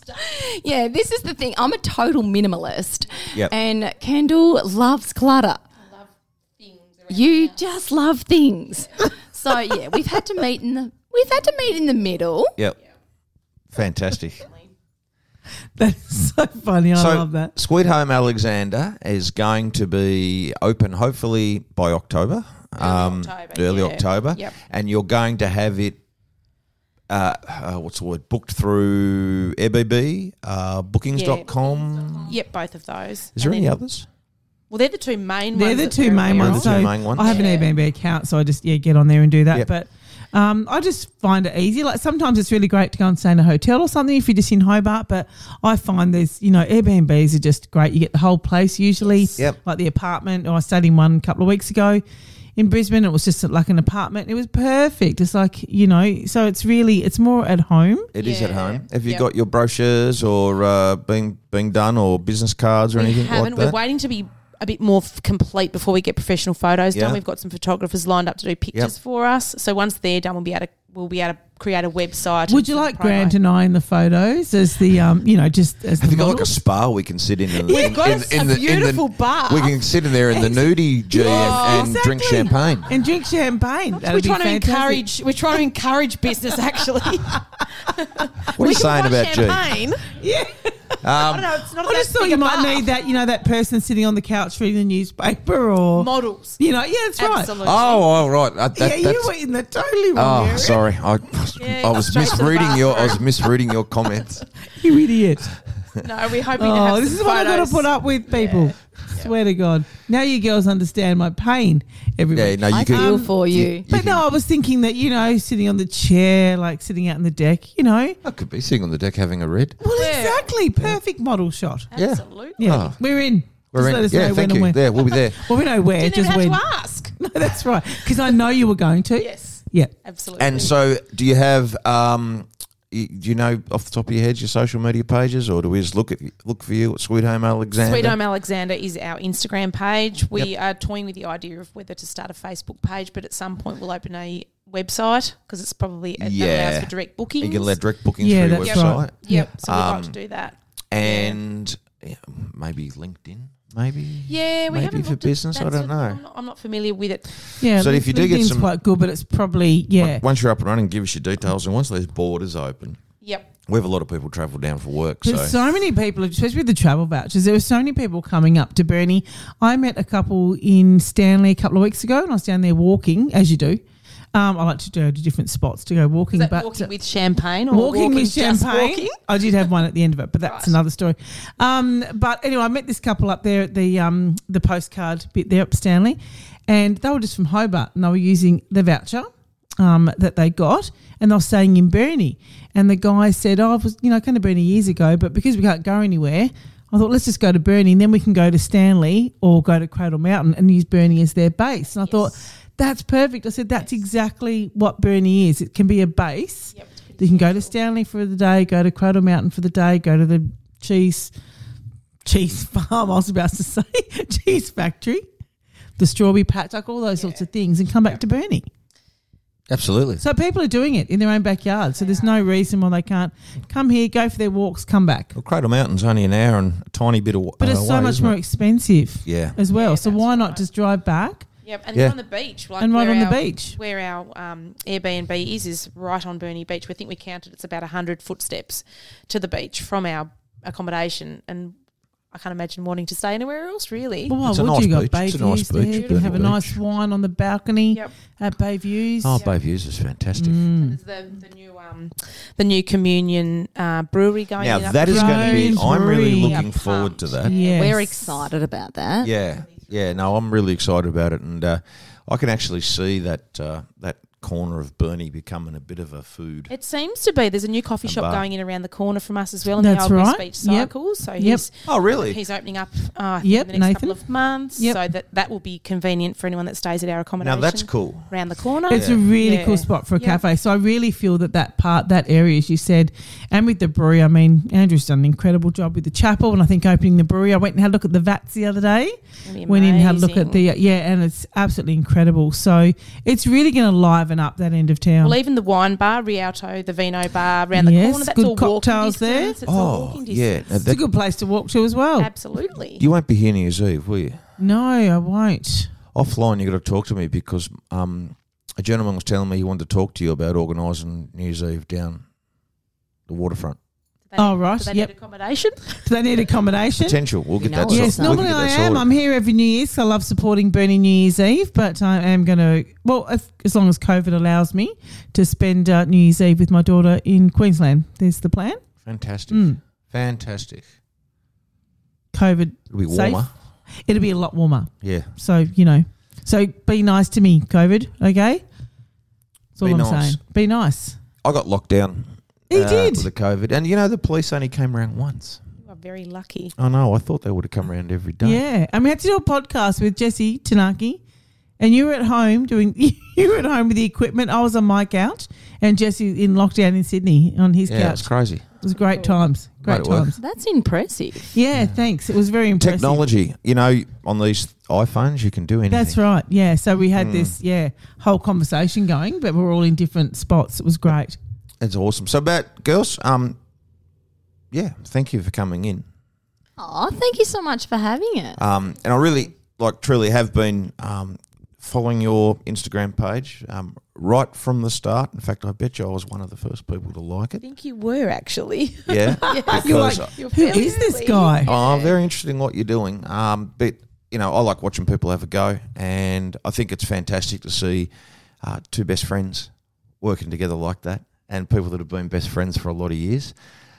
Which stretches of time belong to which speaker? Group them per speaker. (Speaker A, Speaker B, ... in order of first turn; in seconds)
Speaker A: 0.1-5.6, 7.1-12.5, 112.7-113.8, 257.5-259.3, 317.6-318.5, 360.4-361.6, 376.8-378.6
Speaker B: 6.6-7.5, 22.8-24.6, 31.1-31.5, 32.2-33.7, 34.7-37.7, 49.0-49.4, 58.2-59.2, 63.0-73.3, 77.7-82.4, 84.0-90.1, 91.1-92.9, 96.0-96.6, 97.2-98.1, 101.6-103.3, 106.0-109.3, 119.9-120.5, 121.9-122.8, 125.9-127.1, 129.2-130.7, 137.8-147.8, 148.6-151.4, 154.2-157.3, 163.2-163.5, 176.3-179.2, 180.4-180.8, 202.0-202.3, 206.7-207.7, 222.0-222.4, 229.7-230.6, 231.6-241.8, 242.3-244.4, 245.8-246.4, 250.8-258.2, 266.7-280.4, 289.4-290.6, 295.2-300.8, 302.2-303.0, 314.3-316.0, 345.8-346.7, 387.6-392.1
Speaker C: 13.7-14.5, 16.9-26.0, 27.1-32.4, 33.4-34.1, 36.3-37.5, 58.1-63.8, 66.9-67.2, 76.0-83.0, 88.5-89.7, 91.0-91.6, 97.6-99.3, 100.1-104.4, 112.3-114.2, 118.2-119.8, 121.9-123.0, 123.7-125.5, 130.4-138.2, 146.2-150.2, 150.9-156.2, 157.6-158.7, 160.0-163.0, 163.7-165.8, 219.7-220.2, 225.3-228.3, 229.2-229.6, 244.4-246.8, 249.2-250.6, 254.6-257.5, 259.2-266.7, 268.0-268.4, 271.9-272.4, 277.4-278.3, 278.9-279.2, 299.6-301.0, 302.9-304.4, 306.1-312.2, 313.3-313.8, 317.0-319.1, 329.0-330.9, 332.9-333.5, 335.0-335.3, 339.8-340.4, 341.4-345.6, 346.8-348.6, 357.9-358.6, 359.8-360.3, 362.8-366.2, 367.1-367.6, 371.8-373.6, 374.7-376.0, 378.6-387.6, 389.1-390.3, 391.6-398.1, 398.6-403.5
Speaker D: 15.8-17.5, 35.5-52.0, 52.5-58.1, 72.5-76.5, 77.7-78.0, 81.1-85.0, 90.1-91.0, 91.8-97.6, 98.7-100.8, 104.7-105.5, 106.6-118.2, 119.8-121.9, 122.6-126.6, 127.2-129.9, 148.2-149.5, 157.6-160.2, 165.2-173.8, 174.3-176.9, 177.7-211.3, 212.2-215.2, 216.0-218.7, 220.2-225.3, 227.6-231.5, 232.8-233.8, 244.3-249.4, 250.4-251.0, 255.1-256.6, 257.4-258.1, 269.8-271.6, 273.4-274.2, 278.9-295.4, 297.7-299.6, 300.8-302.3, 304.6-305.9, 314.4-315.1, 316.0-317.2, 317.9-328.8, 329.5-329.8, 332.3-333.4, 334.0-338.6, 339.8-341.2, 342.7-343.3, 348.4-351.2, 351.8-360.4, 361.5-363.2, 365.9-371.4, 389.3-391.7